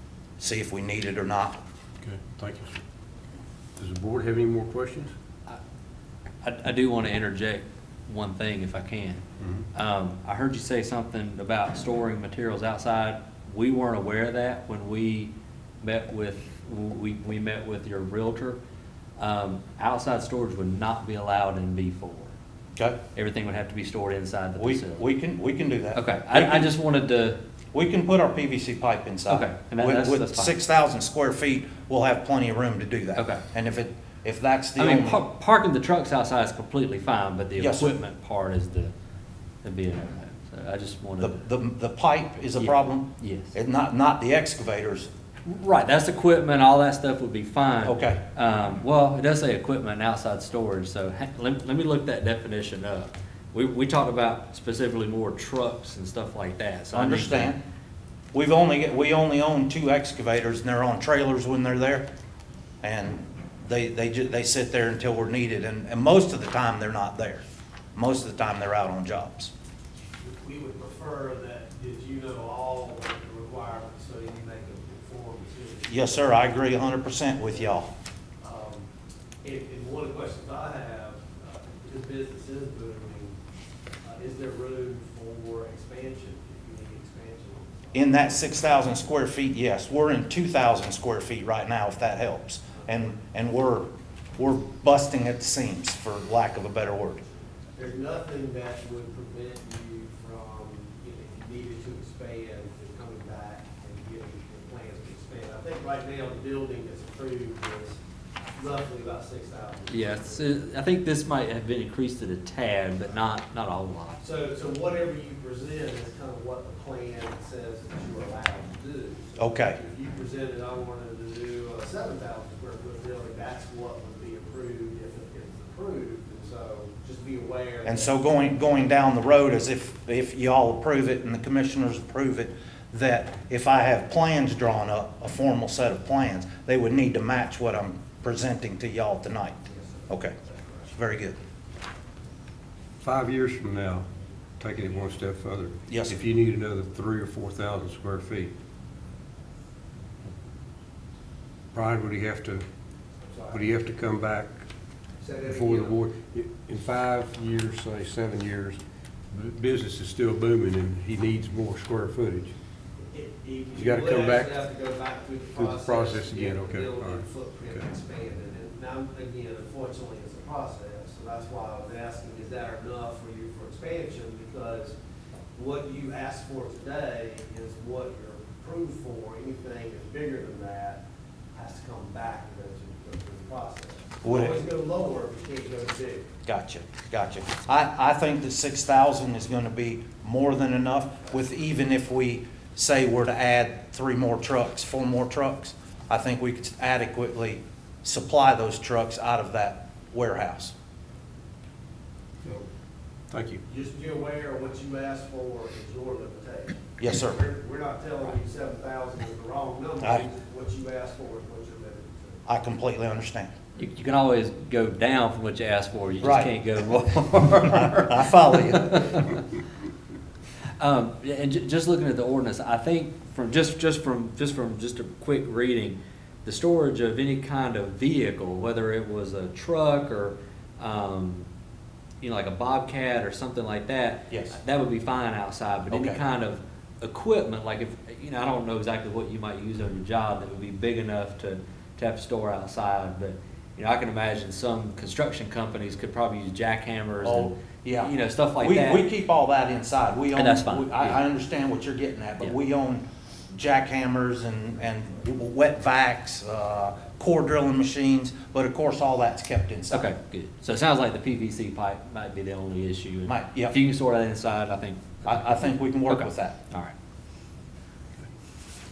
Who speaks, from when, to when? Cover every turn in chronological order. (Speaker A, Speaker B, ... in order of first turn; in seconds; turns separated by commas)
Speaker A: 0.4-1.6, Speaker B: 2.0-2.8, Speaker B: 3.8-5.1, Speaker C: 6.4-9.2, Speaker B: 9.4-9.6, Speaker C: 9.7-18.6, Speaker C: 19.2-22.3, Speaker C: 23.1-25.0, Speaker A: 24.6-26.7, Speaker C: 25.9-27.4, Speaker A: 27.7-35.2, Speaker C: 29.3-30.6, Speaker C: 33.1-33.4, Speaker C: 34.8-38.9, Speaker A: 37.6-37.9, Speaker C: 39.6-41.4, Speaker A: 41.2-45.1, Speaker C: 42.6-43.5, Speaker C: 45.4-57.5, Speaker A: 47.8-48.2, Speaker A: 56.9-57.6, Speaker A: 58.3-62.1, Speaker A: 62.8-67.4, Speaker A: 67.9-69.5, Speaker D: 70.2-76.8, Speaker A: 75.9-77.9, Speaker D: 77.4-77.8, Speaker D: 78.4-78.8, Speaker D: 79.4-83.3, Speaker D: 84.0-88.5, Speaker A: 87.9-97.2, Speaker D: 97.8-108.0, Speaker D: 108.5-110.7, Speaker C: 109.9-114.2, Speaker D: 114.2-128.2, Speaker A: 119.4-119.8, Speaker A: 127.8-140.3, Speaker D: 139.7-140.9, Speaker A: 140.9-141.4, Speaker B: 143.0-144.1, Speaker B: 144.6-148.5, Speaker A: 145.9-146.2, Speaker B: 151.7-152.6, Speaker D: 153.2-153.7, Speaker B: 153.5-154.6, Speaker D: 155.2-155.9, Speaker B: 155.4-158.8, Speaker B: 159.3-162.5, Speaker D: 163.0-174.9, Speaker B: 163.7-164.6, Speaker B: 165.6-167.8, Speaker D: 175.5-186.3, Speaker A: 184.2-184.6, Speaker A: 186.4-200.7, Speaker B: 203.3-203.6, Speaker D: 203.7-212.4, Speaker A: 207.0-207.4, Speaker A: 212.4-213.5, Speaker C: 213.8-219.4, Speaker A: 216.2-216.5, Speaker A: 217.6-219.2, Speaker C: 220.8-231.5, Speaker C: 232.2-249.1, Speaker A: 234.3-234.6, Speaker A: 235.9-236.2, Speaker A: 247.2-260.1, Speaker C: 250.3-251.2, Speaker C: 259.9-266.9, Speaker A: 263.2-263.8, Speaker A: 265.2-266.6